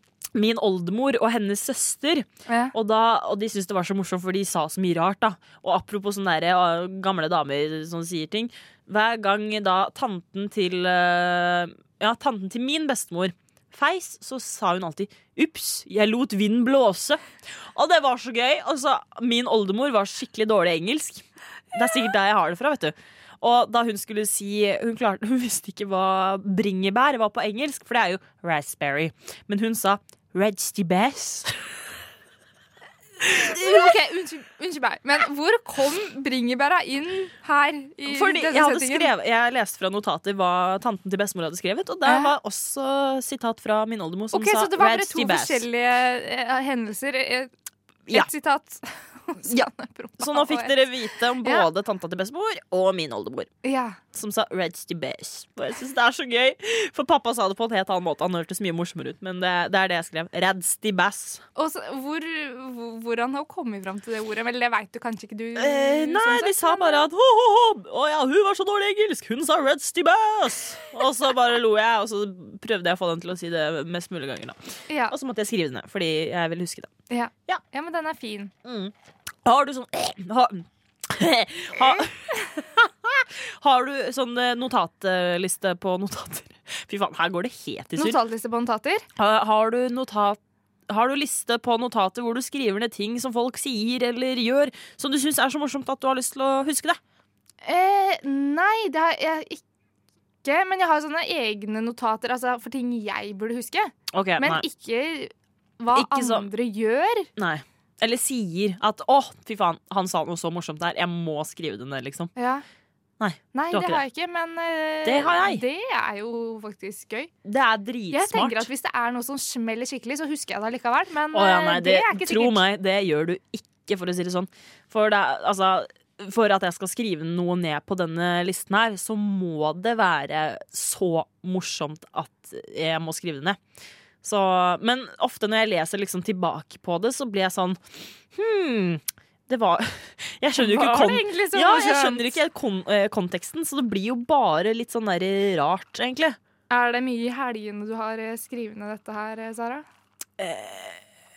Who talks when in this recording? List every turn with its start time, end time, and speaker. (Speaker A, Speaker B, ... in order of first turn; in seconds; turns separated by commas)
Speaker A: 0.3-31.6, Speaker B: 2.5-2.7, Speaker A: 33.3-33.9, Speaker B: 33.3-39.1, Speaker A: 38.0-45.6, Speaker B: 42.0-42.3, Speaker B: 44.3-47.5, Speaker B: 48.1-50.9, Speaker A: 49.4-53.5, Speaker B: 51.4-51.7, Speaker B: 53.6-54.0, Speaker A: 54.1-61.4, Speaker B: 61.5-67.1, Speaker A: 65.5-74.6, Speaker B: 74.9-75.1, Speaker A: 75.1-76.9, Speaker B: 77.1-78.5, Speaker A: 78.6-78.9, Speaker A: 79.4-88.2, Speaker B: 88.0-89.0, Speaker A: 89.2-97.0, Speaker B: 97.6-99.6, Speaker B: 100.4-107.3, Speaker A: 104.1-104.6, Speaker A: 105.9-106.5, Speaker A: 107.4-112.3, Speaker B: 112.3-112.6, Speaker A: 113.2-114.0, Speaker B: 113.5-117.3, Speaker A: 115.0-115.6, Speaker A: 117.4-118.7, Speaker B: 118.1-122.6, Speaker A: 121.3-133.6, Speaker A: 134.2-137.8, Speaker A: 138.3-146.4, Speaker B: 140.6-142.3, Speaker B: 146.7-149.8, Speaker A: 150.4-151.0